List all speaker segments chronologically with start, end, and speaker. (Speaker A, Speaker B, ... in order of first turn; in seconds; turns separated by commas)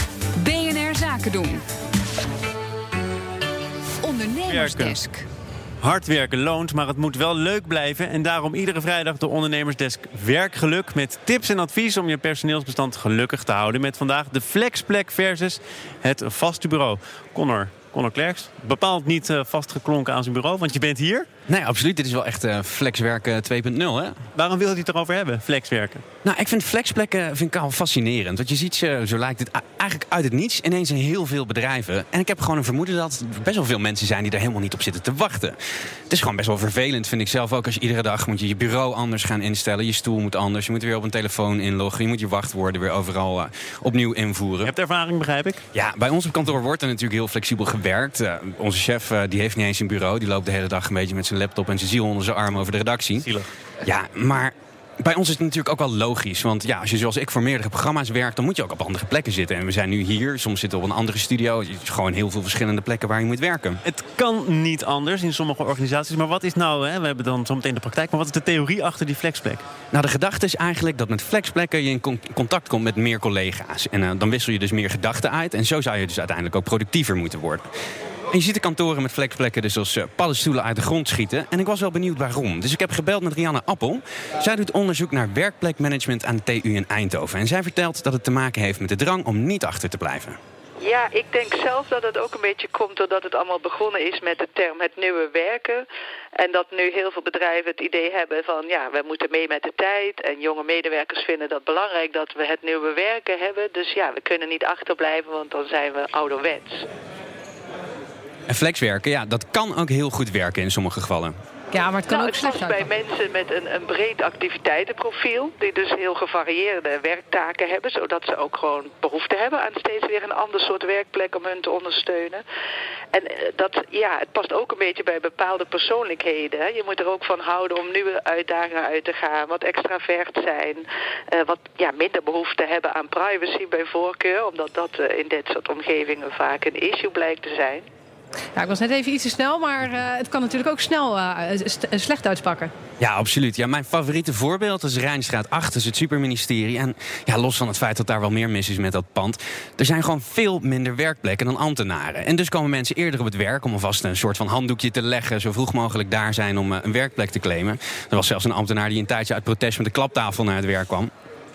Speaker A: 0.4-1.6, Speaker A: 4.0-5.2, Speaker B: 4.5-5.0, Speaker B: 5.8-21.3, Speaker C: 21.5-24.2, Speaker B: 24.4-26.0, Speaker C: 26.2-35.6, Speaker C: 36.1-44.7, Speaker B: 44.7-45.6, Speaker C: 45.7-53.3, Speaker C: 53.8-63.8, Speaker B: 63.9-69.6, Speaker C: 69.9-77.7, Speaker C: 78.3-90.4, Speaker D: 90.8-106.9, Speaker C: 108.5-111.3, Speaker E: 111.7-112.8, Speaker D: 112.1-122.4, Speaker D: 123.1-137.9, Speaker E: 138.6-142.7, Speaker C: 143.0-161.1